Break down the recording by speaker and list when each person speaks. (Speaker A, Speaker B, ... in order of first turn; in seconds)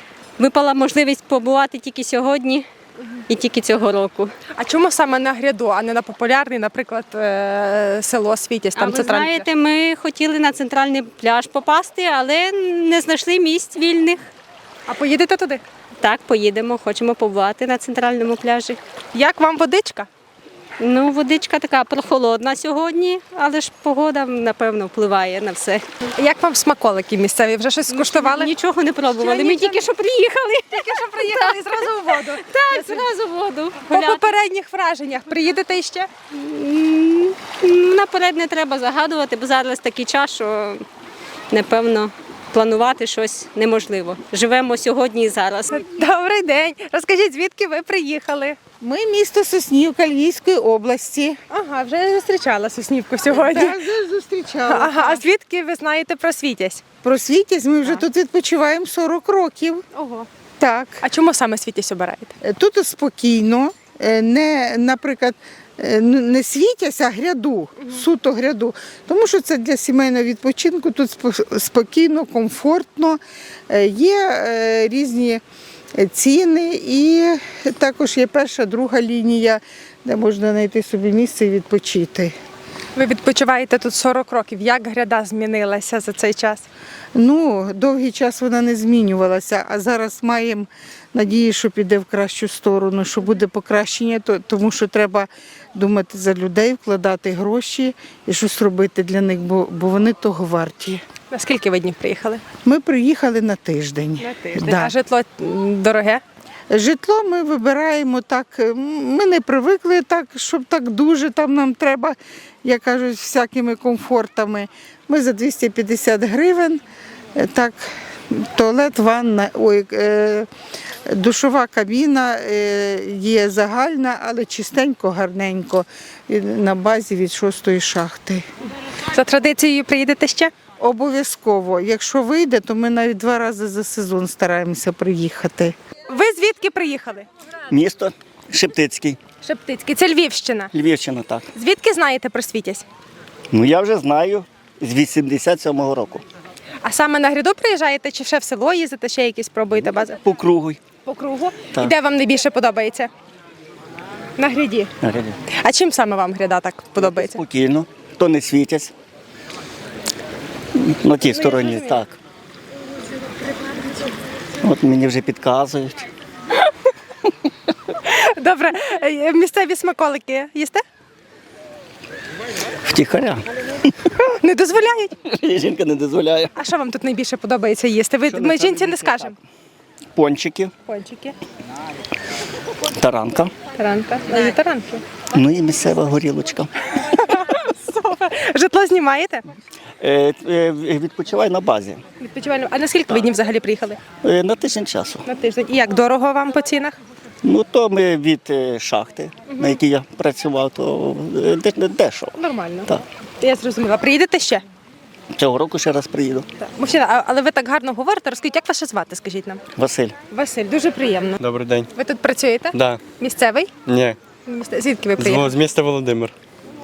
Speaker A: 0.4-2.7, 3.3-4.3, 8.7-14.2, 16.0-18.8, 20.8-25.8, 27.9-34.3, 36.3-40.8, 41.5-45.7
Speaker B: 4.6-9.5, 14.9-15.6, 19.1-20.1, 26.1-28.5, 29.1-29.8, 30.7-33.1, 33.9-36.1, 45.7-48.6, 51.5-53.8, 54.7-56.8, 59.9-60.3, 61.0-62.3, 82.9-86.6, 101.3-102.4, 104.2-106.2, 129.1-130.5, 136.1-137.2, 139.4-140.7, 141.5-142.8, 146.8-150.2, 151.0-153.1, 154.4-154.9, 155.6-157.4, 161.3-162.0, 168.0-170.8, 174.3-175.1, 176.6-179.3, 180.8-181.3, 183.8-185.0, 187.0-189.4, 192.2-194.0, 195.2-196.9, 199.5-199.8, 202.4-204.6, 206.6-209.6, 210.3-211.4, 211.9-213.7, 214.5-215.5
Speaker C: 48.8-51.4, 53.3-55.2, 57.0-59.8, 60.6-61.0, 62.4-75.4, 76.0-82.3, 87.1-101.0, 102.6-104.9, 106.7-116.8, 117.3-120.5, 121.1-128.4, 130.8-135.7
Speaker D: 137.7-139.2, 140.7-141.4, 143.5-146.2, 149.8-150.8, 155.0-155.3, 156.9-158.9, 160.8-162.2, 164.6-166.0, 172.8-173.4, 175.3-176.5, 178.3-179.0, 180.2-180.7, 183.0-183.5, 185.3-186.7, 190.0-192.0, 194.2-195.2, 197.4-202.3, 205.3-206.4, 209.8-210.1
Speaker E: 211.4-211.9, 212.7-213.0, 213.8-214.2, 215.2-216.3